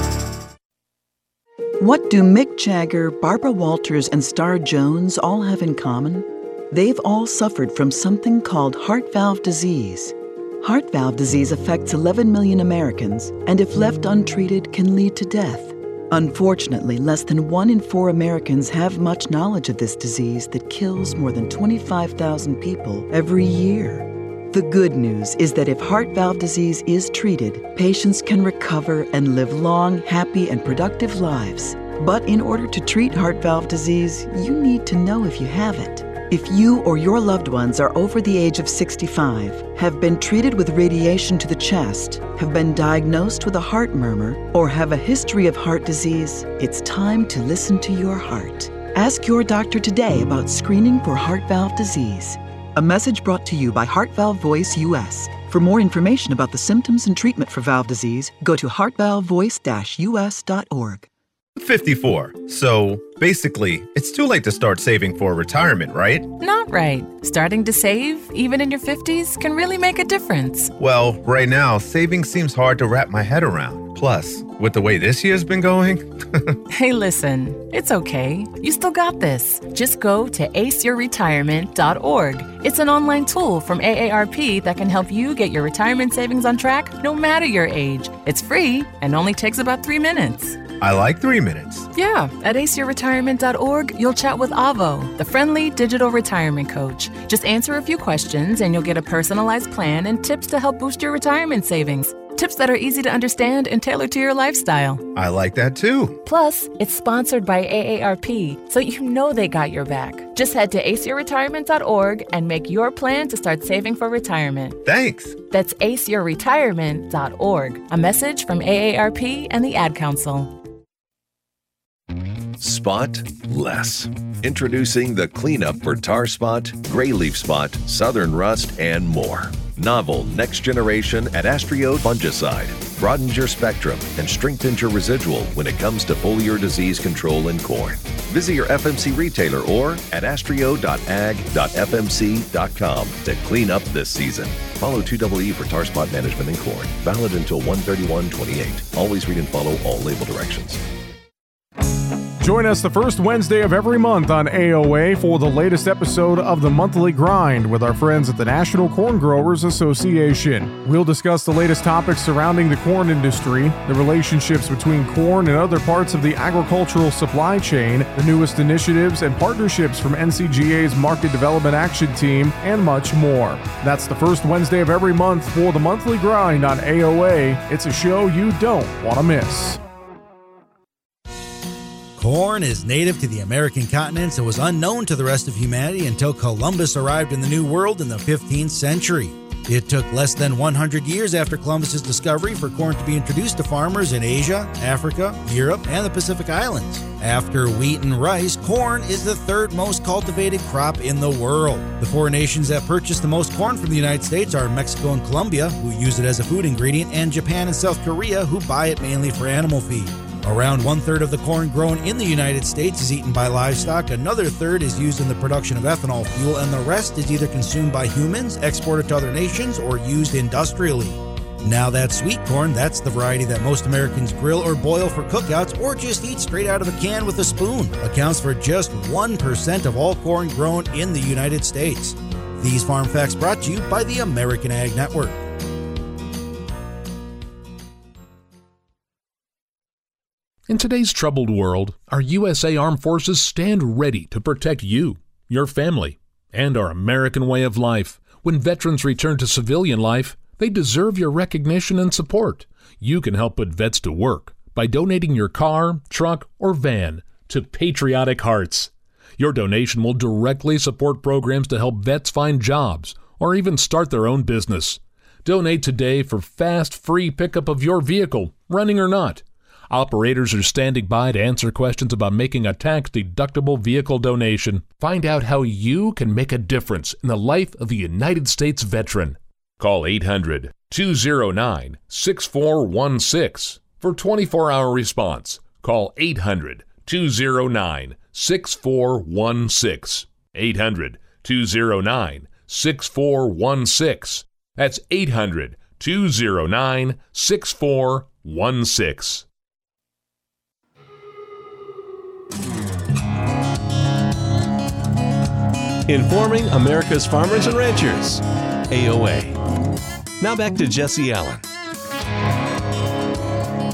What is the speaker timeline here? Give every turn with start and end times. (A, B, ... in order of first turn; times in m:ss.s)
0:01.8-1:01.1 A
1:01.6-1:06.3 B
1:06.4-1:10.7 C
1:10.8-1:16.5 B
1:16.7-1:30.6 C
1:30.8-1:31.9 B
1:31.9-1:45.0 C
1:45.1-1:46.2 B
1:46.2-1:54.8 C
1:54.8-1:55.4 B
1:55.4-2:00.5 C
2:02.6-2:30.8 D
2:32.4-2:59.8 E
3:02.2-3:55.4 F
4:00.7-4:59.4 G
5:06.1-5:09.6 H
5:10.4-5:11.6 H